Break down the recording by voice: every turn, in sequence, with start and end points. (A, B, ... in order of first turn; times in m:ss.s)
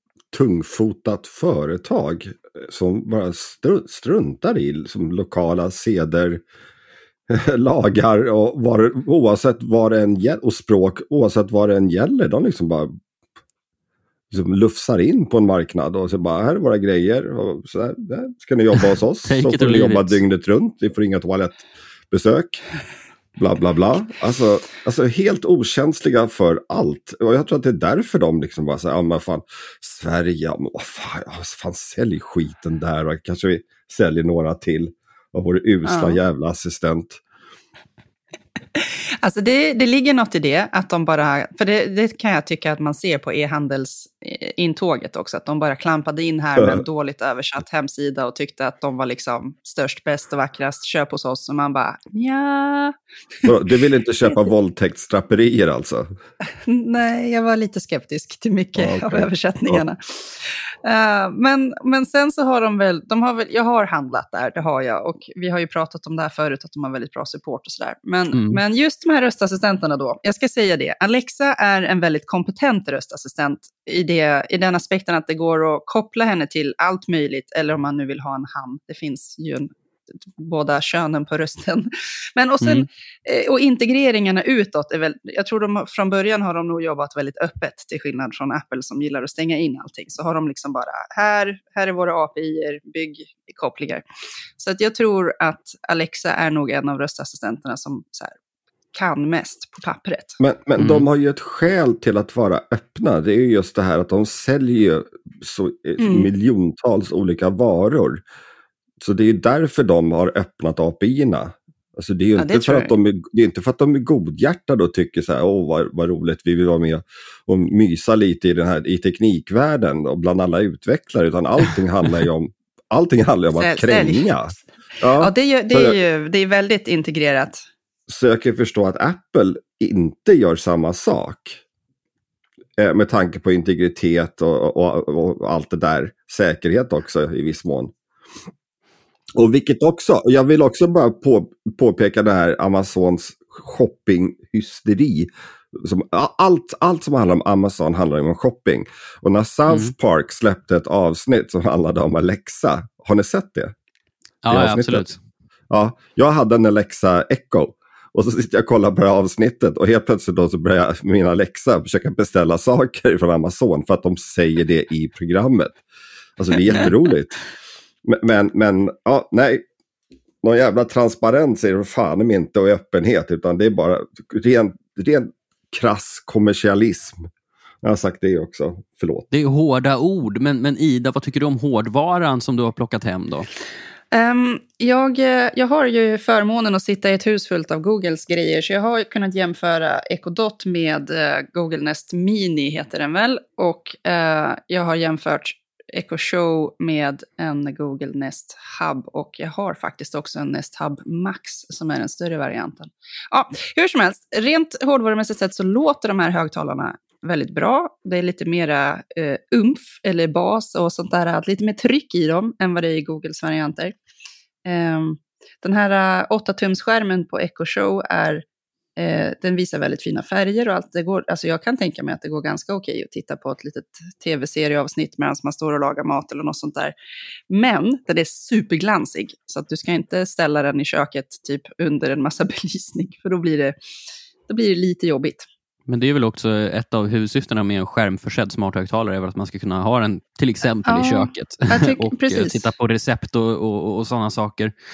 0:00.3-0:06.4 A
0:07.3-0:12.9 A
0:14.3-0:22.6 A
0:19.2-0:20.2 B
0:23.4-0:37.2 A
0:35.8-0:36.2 C
0:38.8-0:53.5 C
0:46.6-0:46.8 A
0:53.4-0:56.1 A
0:56.5-1:19.7 C
0:58.8-0:59.8 A
1:08.3-1:08.6 B
1:20.3-1:34.0 C
1:22.6-1:22.9 B
1:34.6-1:38.4 C
1:38.9-1:40.4 C
1:40.4-1:48.2 A
1:40.8-1:41.0 B
1:46.0-1:46.3 C
1:49.0-2:06.0 A
1:52.4-1:53.0 C
2:03.5-2:04.4 C
2:05.2-2:07.6 C
2:08.1-2:11.6 A
2:12.8-2:17.9 A
2:19.4-2:33.7 A
2:29.7-2:29.9 B
2:34.4-2:35.2 B
2:34.5-2:35.0 A
2:35.7-2:45.8 A
2:46.4-2:47.4 A
2:48.0-2:49.6 A
2:50.4-2:57.3 A
2:57.8-2:59.2 A
2:59.3-3:03.5 B
3:04.1-3:34.0 C
3:34.6-3:38.4 C
3:39.0-3:46.9 C
3:47.5-3:53.8 C
3:54.5-3:55.4 C
3:55.9-4:04.7 B
4:00.9-4:02.7 C